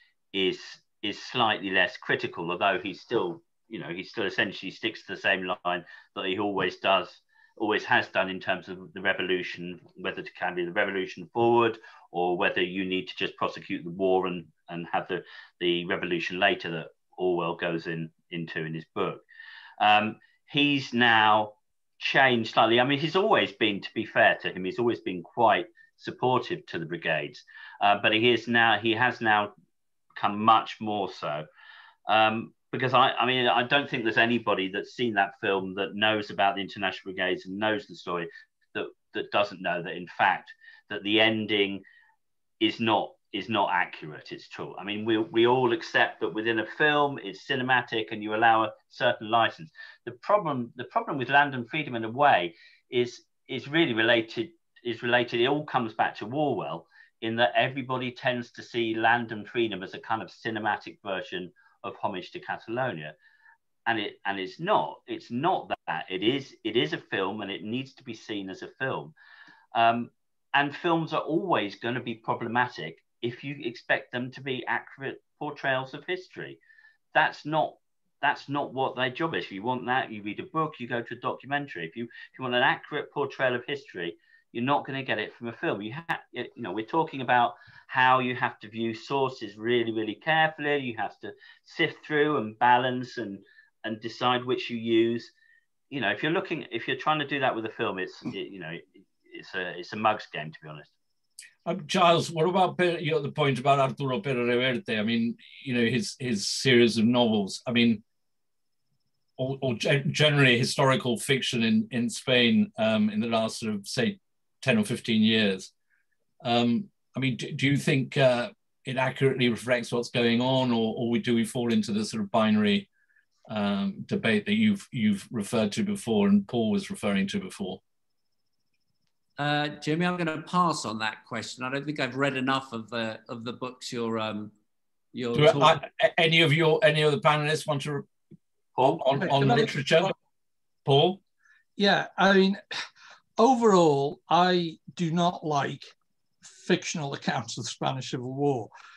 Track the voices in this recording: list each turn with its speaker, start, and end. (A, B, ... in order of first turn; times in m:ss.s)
0:00.3-0:19.2 A
0:19.8-0:29.5 A
0:30.2-0:31.5 A
0:32.1-0:41.8 A
0:42.6-1:03.2 A
1:03.9-1:09.1 A
1:09.7-1:16.6 A
1:17.1-1:35.3 A
1:35.9-1:40.9 A
1:41.6-1:48.0 B
1:49.4-1:55.7 B
1:56.4-2:02.9 B
2:03.5-2:07.8 B
2:09.4-2:14.5 C
2:15.1-2:15.8 C
2:15.4-2:18.1 B
2:18.8-2:19.0 A
2:18.8-2:20.1 B
2:19.2-2:19.7 D
2:20.9-2:21.2 B
2:21.8-2:22.6 D
2:23.4-2:25.9 D
2:26.5-2:28.7 D